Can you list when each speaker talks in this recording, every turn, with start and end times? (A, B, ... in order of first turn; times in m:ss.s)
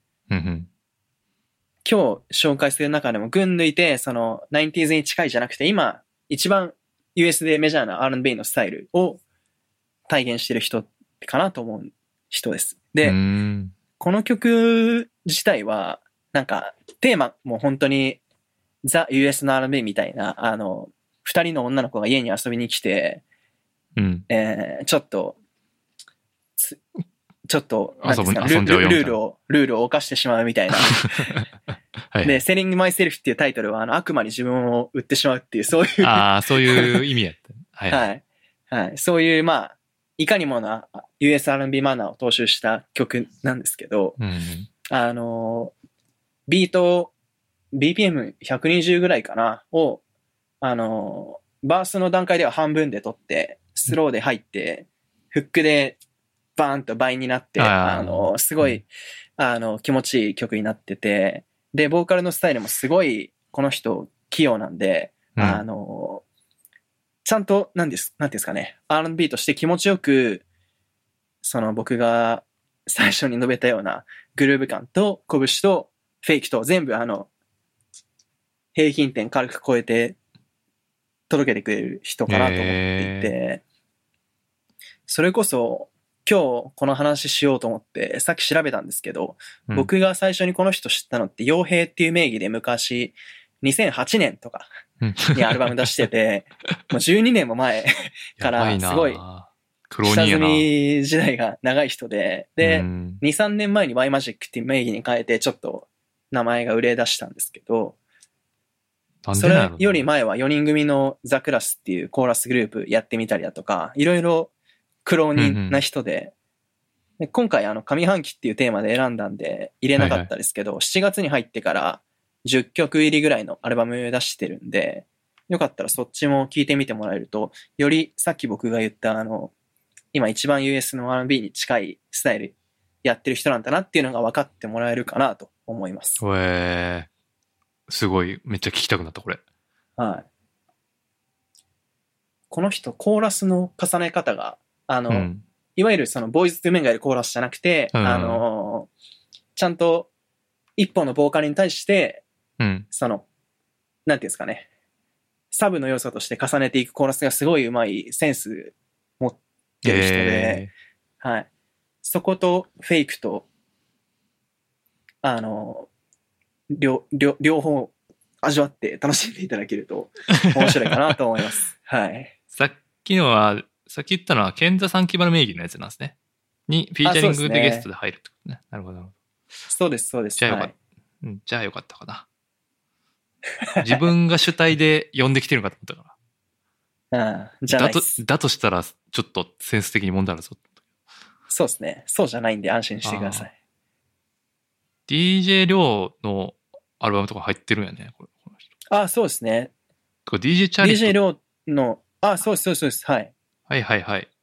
0:00.3-0:00.7 A
0:01.8-0:09.2 B
0:10.1-0:13.2 B
0:13.0-0:13.7 A
0:14.0-0:18.2 B
0:18.8-0:23.2 B
0:24.0-0:24.2 A
0:24.3-0:25.4 B
0:27.5-0:31.3 B
0:28.0-0:29.2 A
0:30.9-0:31.4 A
0:32.1-0:32.4 A
0:32.2-0:37.0 B
0:36.0-0:38.0 A
0:37.9-0:44.2 B
0:44.2-0:44.7 A
0:44.9-0:45.7 B
0:46.5-0:47.1 B
0:47.7-0:50.0 B
0:50.6-0:56.0 B
0:56.6-1:06.2 B
0:57.6-0:58.8 A
1:05.4-1:05.6 A
1:07.2-1:10.4 B
1:11.4-1:17.3 B
1:18.7-1:20.2 B
1:21.3-1:23.6 B
1:22.3-1:23.3 A
1:25.1-1:34.7 B
1:35.0-1:35.7 A
1:35.3-1:39.2 B
1:38.4-1:40.7 A
1:40.0-1:48.0 B
1:42.6-1:43.2 A
1:49.2-1:50.0 A
1:49.3-1:54.5 B
1:55.0-1:56.3 B
1:55.4-1:55.8 A
1:57.2-2:09.5 B
2:00.0-2:00.3 A
2:10.1-2:16.2 B
2:16.2-2:17.1 A
2:17.9-2:19.4 A
2:20.0-2:20.3 B
2:22.5-2:28.9 B
2:25.1-2:25.4 A
2:27.9-2:28.4 A
2:29.5-2:30.1 B
2:30.8-2:32.2 B
2:32.6-2:32.9 A
2:32.9-2:33.2 B
2:34.0-2:34.7 B
2:35.5-2:40.6 B
2:39.8-2:40.7 A
2:41.2-2:41.5 B
2:42.0-2:43.5 B
2:45.2-2:45.9 B
2:46.7-2:52.3 B
2:50.5-2:50.9 A
2:52.5-2:56.2 A
2:56.7-2:59.1 A
2:57.0-2:57.9 B
2:59.7-3:00.7 B
3:00.4-3:02.2 A
3:03.7-3:04.0 B
3:03.8-3:06.1 A
3:07.1-3:08.2 B
3:07.7-3:10.6 A
3:11.5-3:13.5 B
3:13.0-3:13.5 A
3:15.1-3:18.6 A
3:18.9-3:19.7 B
3:20.3-3:21.2 A
3:20.8-3:23.3 B
3:23.7-3:24.3 A